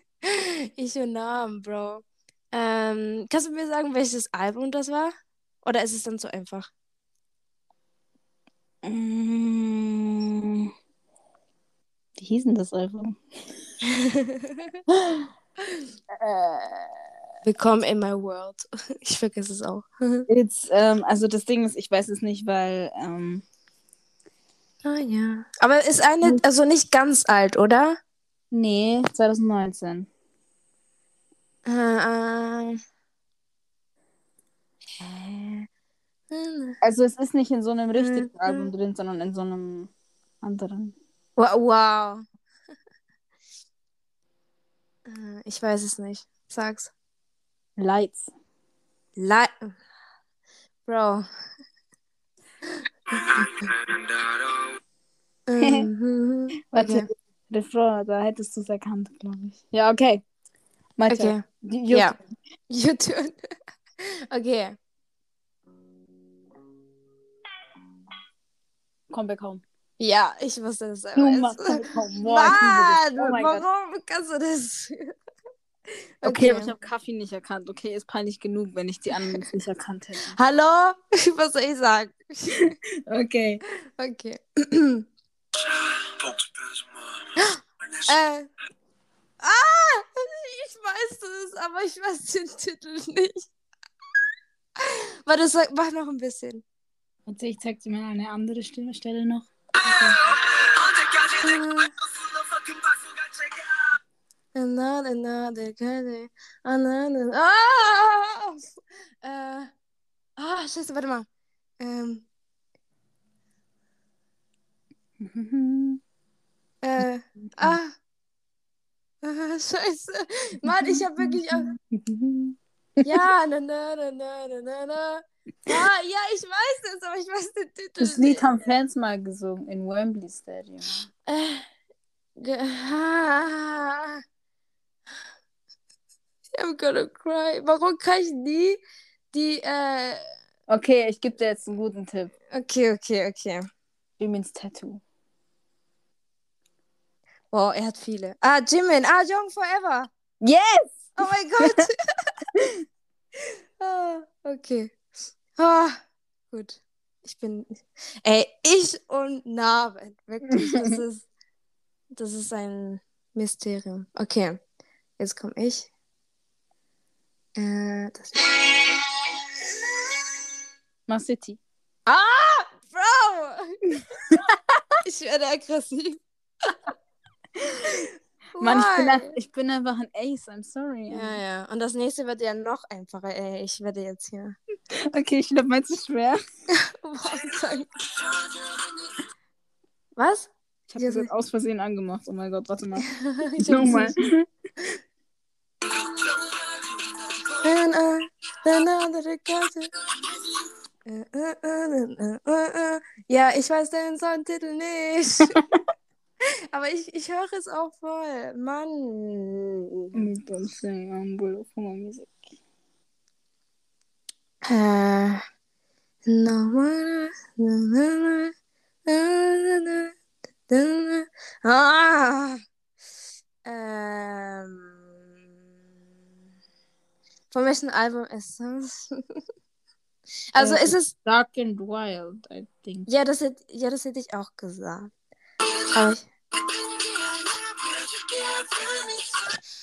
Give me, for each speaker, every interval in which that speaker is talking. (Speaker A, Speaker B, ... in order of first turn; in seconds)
Speaker A: 0.2-6.7, 13.8-14.7, 17.4-20.2, 24.8-28.0, 31.6-32.8, 35.0-35.7, 36.3-36.8, 38.0-38.7, 41.4-42.2, 45.1-46.9, 49.2-49.7, 50.9-51.2, 55.5-57.1, 61.1-62.1, 62.7-63.4, 64.0-64.7, 70.0-75.1, 76.2-76.7, 80.3-82.7, 84.0-85.1, 87.4-88.5, 89.4-93.4, 94.8-96.6, 99.8-100.2, 101.4-101.9, 104.5-108.6, 109.2-109.7, 110.4-111.2, 111.8-112.2, 116.8-117.9, 119.2-121.7, 123.0-128.5, 131.3-131.7, 132.4-134.2, 136.6-138.8, 139.3-140.3, 142.5-143.6, 147.5-150.1, 151.2-152.0, 153.4-154.9, 155.6-161.3, 162.2-164.6, 165.2-165.9, 167.6-168.5, 172.1-173.9, 175.0-176.2, 177.8-179.3, 181.1-184.6, 186.7-187.9, 190.2-191.3, 193.0-194.1, 197.6-199.9, 201.1-205.6, 206.7-210.1, 214.7-215.4, 216.2-218.5, 219.1-220.1, 220.7-222.6, 223.6-225.0, 227.5-229.1, 230.5-231.1, 233.1-235.1, 235.9-236.3
Speaker B: 8.8-10.7, 12.2-13.4, 14.9-15.3, 16.1-17.0, 20.3-23.4, 28.5-30.1, 36.8-39.9, 40.4-40.9, 47.8-48.3, 55.6-55.9, 56.7-60.2, 61.0-62.2, 69.1-69.6, 71.2-73.6, 76.2-80.3, 83.1-83.6, 97.3-99.5, 115.2-116.0, 117.0-117.8, 120.7-123.0, 128.0-131.1, 140.7-142.3, 144.2-145.0, 150.4-151.8, 152.5-152.8, 160.5-161.0, 171.1-171.6, 177.6-177.9, 178.6-181.4, 184.9-186.4, 190.9-193.1, 193.6-194.4, 210.1-212.3, 230.6-233.1
Speaker C: 53.2-54.8, 85.6-87.4, 100.2-103.7, 237.8-239.1